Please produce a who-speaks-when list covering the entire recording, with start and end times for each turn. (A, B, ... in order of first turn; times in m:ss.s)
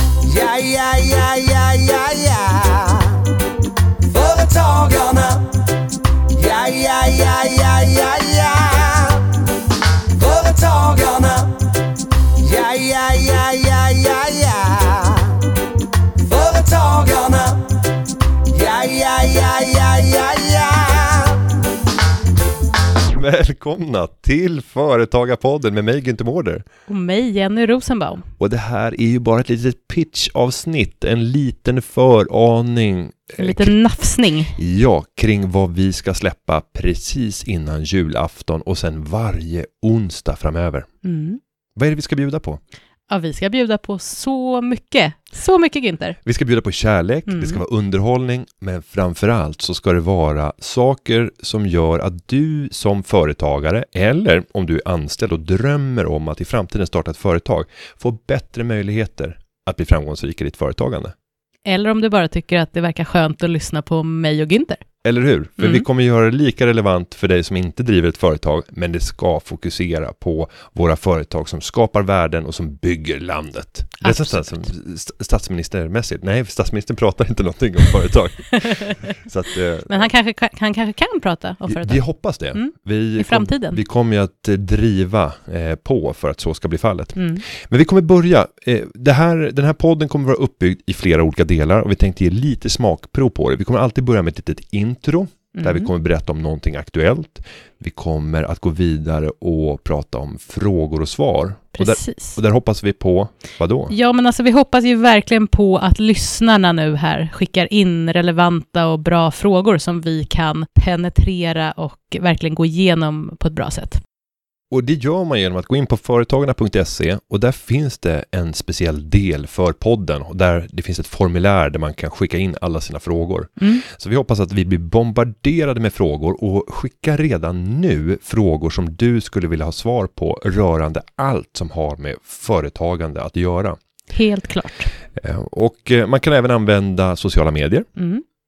0:00.2-0:03.2 A
0:04.1-0:05.4 A
0:06.3-0:09.3 A
0:10.2-0:11.5 A
0:12.4-0:15.3 A
0:16.3-0:17.6 A
0:18.5-0:21.3 A
0:23.1-0:26.6 B
0:26.9-0:28.3 C
0:28.4-0:33.7 B
0:33.4-0:34.6 C
0:34.5-0:40.9 B
0:41.0-0:41.4 C
0:41.8-0:42.6 B
0:43.1-0:46.2 C
0:46.2-1:01.1 B
0:47.3-0:47.6 C
1:01.6-1:04.8 C
1:05.0-1:20.1 B
1:05.6-1:05.9 C
1:14.0-1:14.7 C
1:18.5-1:19.0 C
1:19.9-1:22.0 C
1:21.7-1:43.9 B
1:22.5-1:23.8 C
1:27.2-1:27.4 C
1:35.5-1:35.9 C
1:41.8-1:42.4 C
1:43.9-1:54.0 C
1:54.7-2:13.8 B
2:14.1-2:14.9 C
2:15.2-2:17.9 B
2:18.0-2:18.2 C